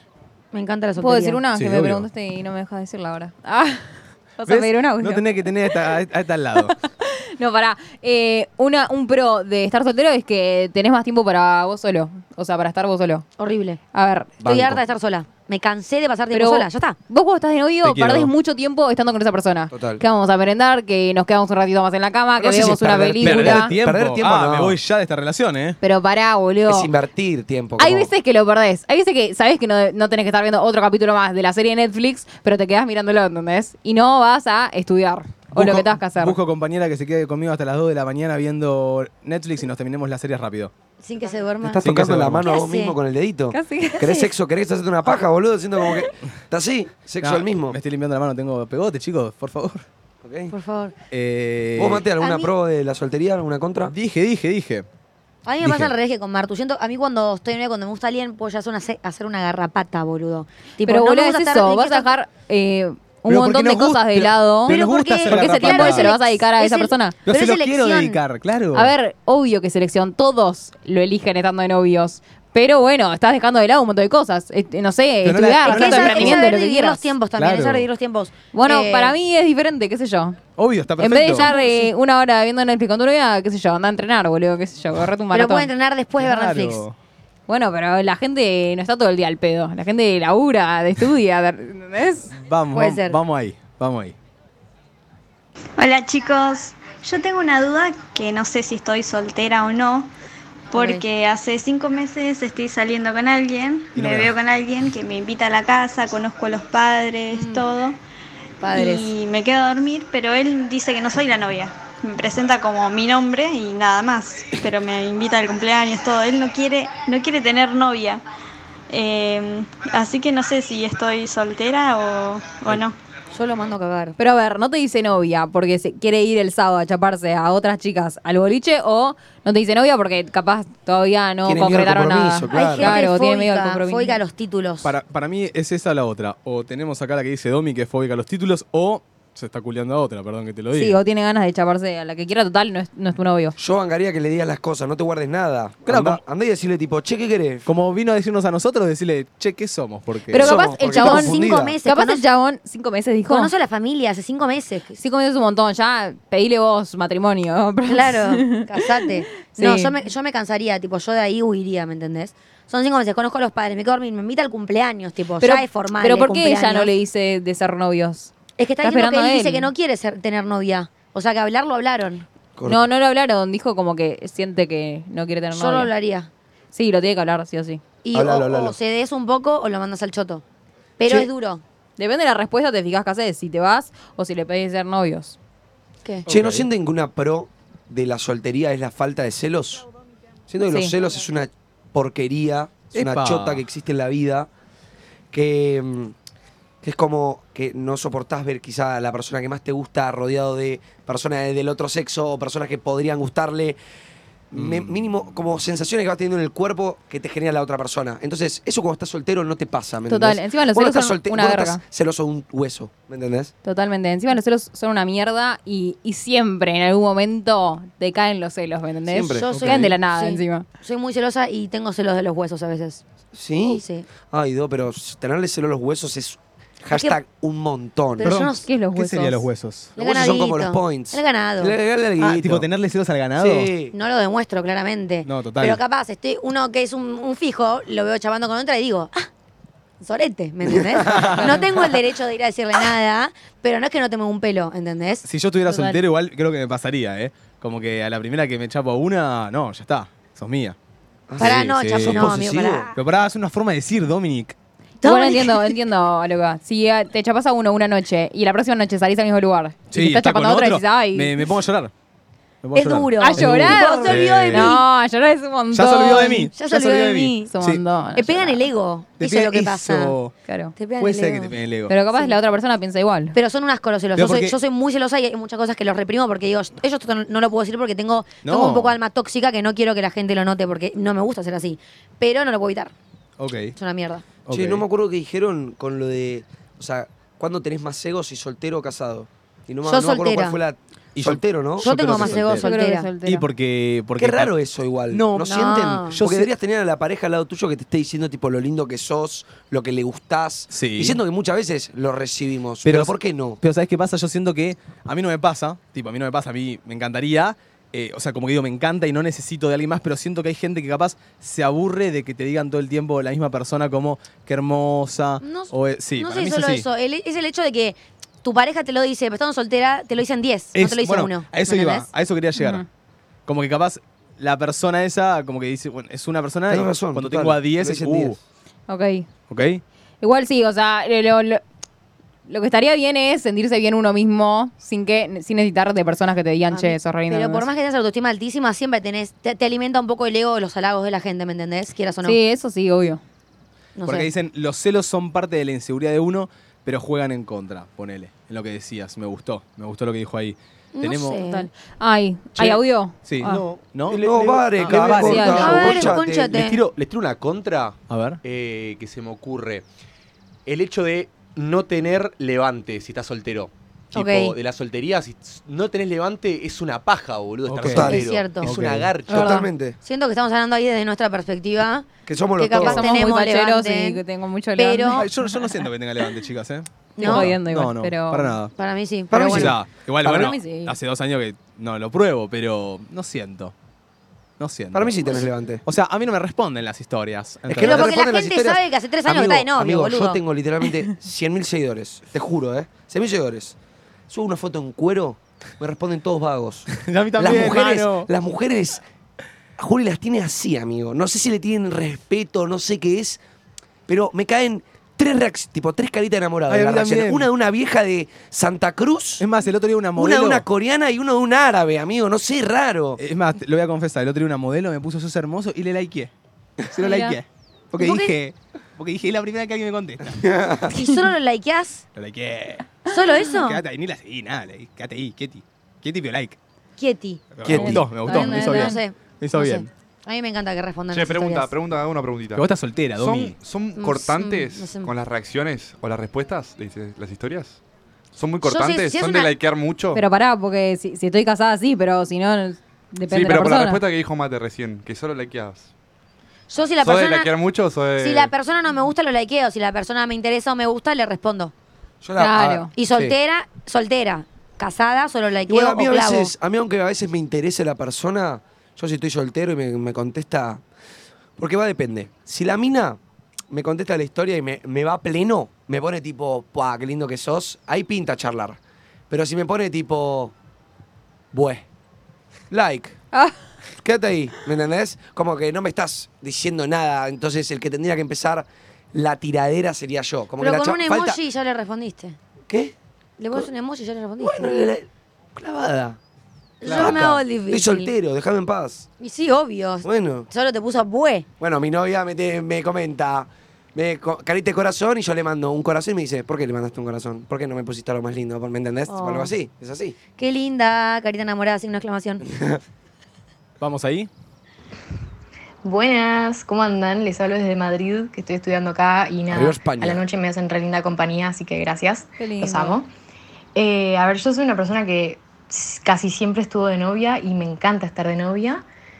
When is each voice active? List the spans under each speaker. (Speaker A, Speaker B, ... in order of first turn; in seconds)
Speaker A: 0.5-1.4, 13.4-13.8, 14.4-17.0, 41.0-41.8, 42.4-43.0, 50.5-51.0, 52.2-52.5, 55.5-62.1, 64.7-68.2, 75.7-79.1, 81.3-81.9, 85.3-86.8, 92.7-93.2, 100.7-101.0, 107.3-107.7, 108.6-109.1, 123.3-124.2, 132.5-134.9, 150.5-152.2, 153.3-155.0, 157.9-166.9, 168.6-172.3, 175.5-176.3, 178.0-180.4, 181.0-181.6, 219.3-223.0, 223.7-224.1, 226.9-227.2, 228.2-228.7, 230.0-231.7, 233.9-239.3, 240.0-245.3, 251.4-252.9, 255.0-255.8, 262.8-264.8, 266.5-267.5, 268.1-270.2, 270.8-271.6, 273.3-282.9, 283.8-284.3, 289.9-290.6, 291.8-293.1, 295.4-296.2, 315.4-322.1, 336.7-342.4, 344.0-344.3, 350.9-351.7, 355.4-356.8, 364.1-364.6, 368.0-374.2, 374.8-375.3, 377.2-377.5, 378.8-379.7, 387.8-390.4, 418.0-418.3, 420.9-422.1, 423.1-423.8, 427.0-431.8, 434.0-435.1, 438.6-439.5, 446.7-447.5, 448.2-451.7, 452.9-456.5, 480.6-482.4, 483.4-484.8, 486.8-488.1, 489.2-491.5, 499.1-499.5, 500.4-502.4
Speaker B: 1.0-5.7, 6.6-13.3, 13.9-14.3, 16.3-23.7, 25.8-26.9, 27.8-36.4, 43.5-44.2, 60.9-67.2, 68.8-77.1, 78.5-80.4, 81.0-85.7, 87.5-92.3, 124.2-134.2, 140.7-143.6, 150.3-153.5, 155.0-159.9, 165.4-169.7, 172.7-175.9, 176.7-177.8, 182.0-185.4, 210.1-211.8, 213.6-220.7, 228.6-229.4, 245.7-246.0, 255.0-261.4, 263.2-266.5, 267.5-268.6, 270.5-270.8, 271.9-273.4, 292.6-293.5, 322.6-322.9, 328.9-329.3, 330.2-331.6, 332.5-337.7, 342.2-343.2, 351.4-353.6, 355.1-356.0, 369.3-369.7, 372.8-375.3, 377.2-378.6, 380.3-380.9, 417.0-417.4, 427.7-429.0, 440.1-444.0, 452.4-452.9, 512.4-513.0
Speaker C: 1.5-2.1, 4.5-6.8, 17.8-18.3, 23.2-25.8, 35.5-40.7, 41.8-42.5, 47.2-49.9, 51.1-52.0, 53.9-54.9, 55.6-55.9, 63.3-66.1, 67.3-68.9, 75.2-76.5, 77.4-77.9, 80.6-81.5, 86.2-87.0, 92.3-94.2, 104.0-104.3, 134.8-141.0, 145.9-146.2, 147.7-150.5, 186.3-186.7, 192.9-193.6, 204.5-205.0, 228.2-229.9, 232.2-233.7, 235.2-235.8, 241.1-241.4, 245.2-250.8, 251.4-252.4, 252.9-254.6, 259.9-261.9, 262.6-264.8, 265.7-267.8, 269.2-270.3, 271.0-271.9, 274.1-274.6, 278.4-279.0, 283.4-283.8, 284.5-284.9, 291.2-292.7, 293.2-294.5, 295.1-296.5, 300.7-301.2, 302.8-316.9, 320.7-322.8, 323.5-328.4, 329.5-329.8, 344.1-351.4, 352.6-356.2, 358.1-358.4, 367.7-369.1, 375.1-378.7, 379.4-383.7, 384.6-388.2, 396.9-398.3, 406.7-407.5, 409.4-410.7, 413.2-416.3, 416.9-420.4, 422.1-426.6, 427.6-429.9, 432.6-433.6, 486.8-487.2, 503.8-504.3
Speaker D: 14.4-14.8, 19.7-20.0, 22.4-24.8, 26.7-28.1, 41.6-47.8, 50.2-50.5, 51.8-54.0, 131.5-133.0, 143.6-147.7, 150.4-151.8, 172.6-172.8, 178.1-178.8, 186.3-189.9, 190.5-194.5, 195.3-196.1, 196.8-203.8, 204.5-213.5, 219.1-219.9, 223.3-228.4, 230.0-232.7, 233.4-233.9, 241.1-241.5, 251.3-252.9, 284.5-292.4, 294.2-303.6, 326.7-328.4, 354.1-356.5, 367.8-368.7, 369.3-370.0, 372.3-373.1, 379.3-380.5, 384.9-385.8, 387.7-393.8, 394.3-399.0, 399.8-403.4, 404.1-409.4, 410.2-413.2, 420.4-420.9, 452.2-453.4, 455.7-460.8, 461.6-463.2, 463.7-468.8, 469.3-470.5, 471.5-471.9, 472.7-473.2, 474.0-481.4, 482.7-482.9, 484.4-486.2, 486.8-489.1, 490.0-490.5, 491.6-500.1, 509.5-510.2
Speaker E: 95.8-100.1, 100.7-108.0, 108.6-118.2, 118.9-123.0
Speaker F: 356.4-359.9, 360.7-369.4
Speaker G: 431.1-437.8, 438.3-440.2, 443.3-445.9, 447.0-448.5
Speaker H: 505.8-513.1, 513.8-518.8